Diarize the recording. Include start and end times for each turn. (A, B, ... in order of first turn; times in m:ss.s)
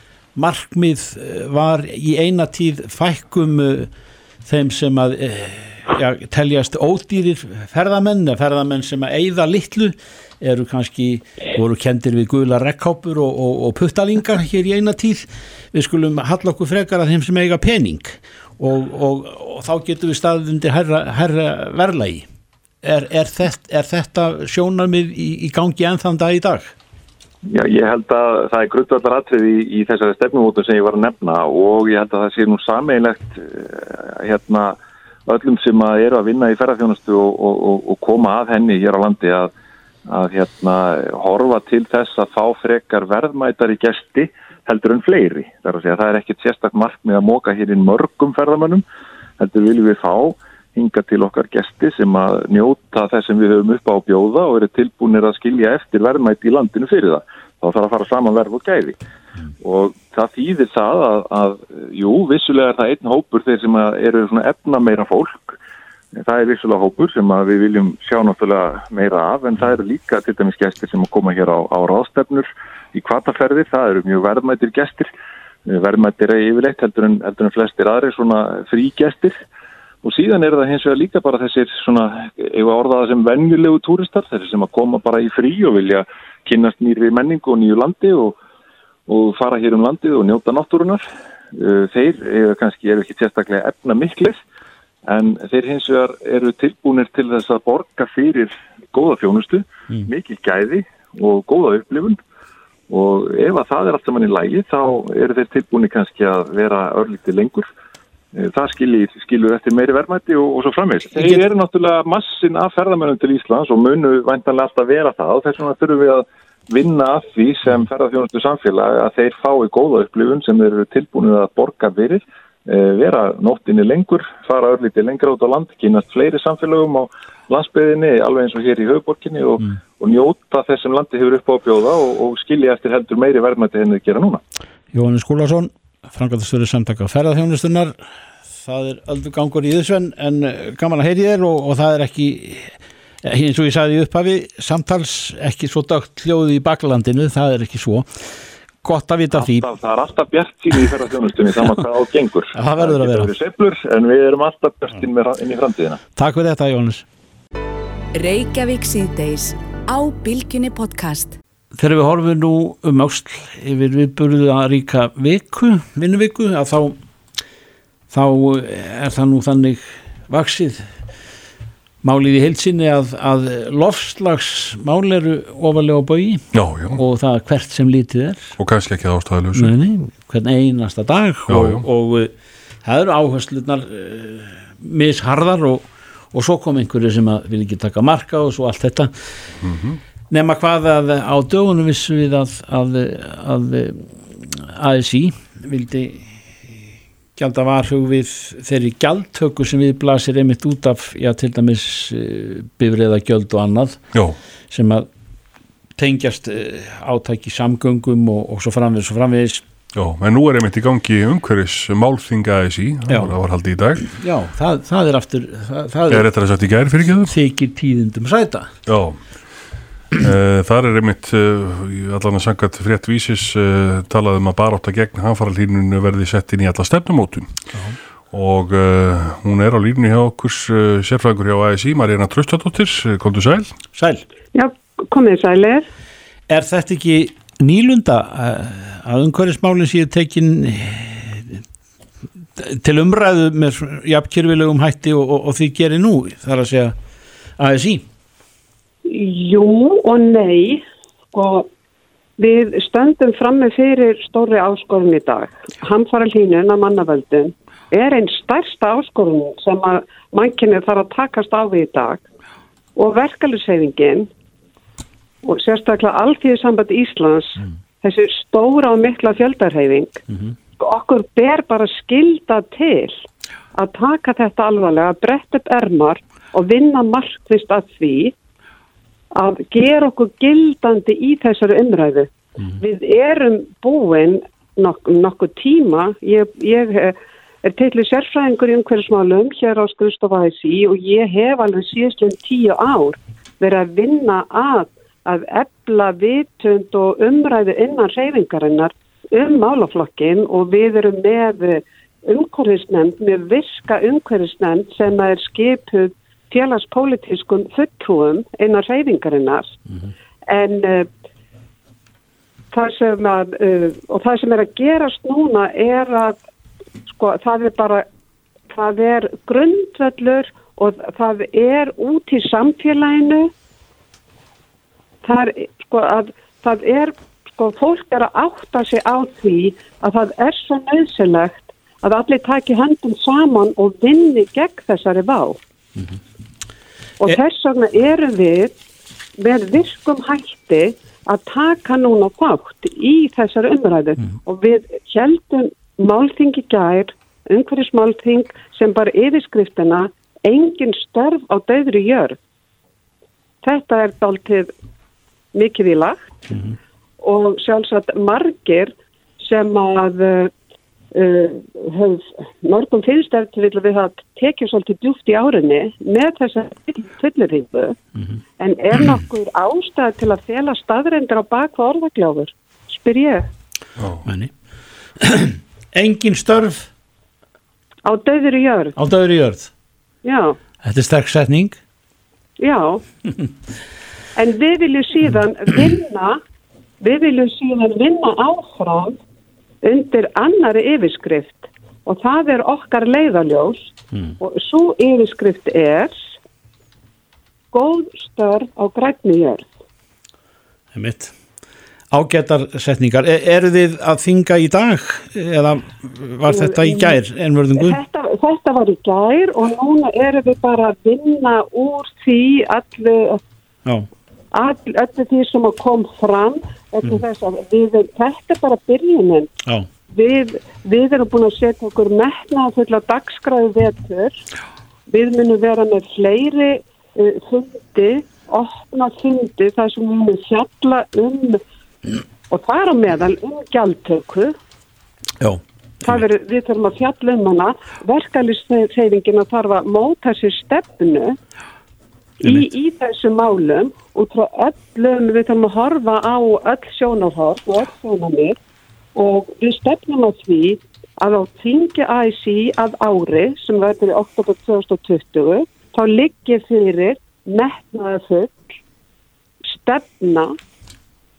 0:00.4-0:03.9 A
0:04.4-0:22.3 A
0:22.8-0:26.7 A
0:27.5-0:39.5 B
0:40.1-0:48.8 B
0:49.4-0:59.0 B
0:59.6-1:05.6 B
1:06.2-1:15.1 B
1:15.7-1:19.4 B
1:20.0-1:28.4 B
1:29.1-1:31.0 B
1:31.5-1:34.4 B
1:35.1-1:42.2 B
1:42.9-1:47.7 B
1:48.3-2:14.4 B
1:51.1-1:51.4 A
2:14.9-2:18.0 A
2:18.5-2:28.3 A
2:28.8-2:29.7 A
2:29.4-2:36.0 B
2:32.5-2:33.3 A
2:36.2-2:37.1 A
2:38.1-2:41.4 C
2:41.8-2:47.0 A
2:48.1-2:50.9 A
2:52.0-2:58.6 A
2:56.5-2:57.0 D
2:58.6-2:59.7 D
2:59.6-3:02.3 A
3:01.5-3:01.8 D
3:02.8-3:09.1 A
3:09.6-3:10.0 D
3:10.3-3:16.8 A
3:17.4-3:24.0 A
3:24.7-3:25.1 A
3:26.0-3:29.6 A
3:30.0-3:34.1 D
3:33.1-3:33.3 A
3:34.1-3:36.3 A
3:36.1-3:37.3 D
3:37.2-3:38.7 A
3:38.9-3:39.2 D
3:40.2-3:53.7 D
3:54.0-3:54.2 A
3:54.5-3:55.9 E
3:56.5-4:01.6 A
4:02.6-4:07.0 A
4:07.6-4:08.0 A
4:09.1-4:10.8 E
4:11.3-4:11.7 E
4:12.4-4:22.2 E
4:23.0-4:24.3 E
4:25.4-4:30.2 E
4:30.8-4:33.2 E
4:33.8-4:38.3 E
4:39.3-5:09.7 E
5:10.5-5:11.1 E
5:12.7-5:16.4 E
5:17.1-5:18.0 E
5:18.7-5:23.5 E
5:25.2-5:35.6 E
5:37.2-5:38.8 E
5:39.4-5:52.4 E
5:53.6-5:54.7 E
5:55.5-5:56.2 E
5:57.2-5:58.9 E
5:59.4-6:00.5 E
6:01.1-6:08.0 E
6:08.6-6:13.5 E
6:14.2-6:14.5 A
6:15.2-6:16.9 A
6:18.0-6:19.0 E
6:19.0-6:19.7 A
6:20.2-6:20.6 E
6:20.8-6:21.8 A
6:22.6-6:23.0 E
6:24.4-6:26.4 E
6:27.0-6:29.2 E
6:29.8-6:36.2 E
6:37.7-6:39.7 E
6:40.9-6:41.3 A
6:42.1-6:48.0 A
6:46.5-6:47.2 E
6:47.8-6:53.4 E
6:54.5-6:59.5 E
7:00.1-7:04.4 E
7:05.1-7:11.6 E
7:12.5-7:14.5 E
7:15.4-7:16.2 A
7:16.0-7:21.4 E
7:22.4-7:28.6 E
7:22.4-7:22.7 A
7:29.2-7:38.6 E
7:39.7-7:40.6 E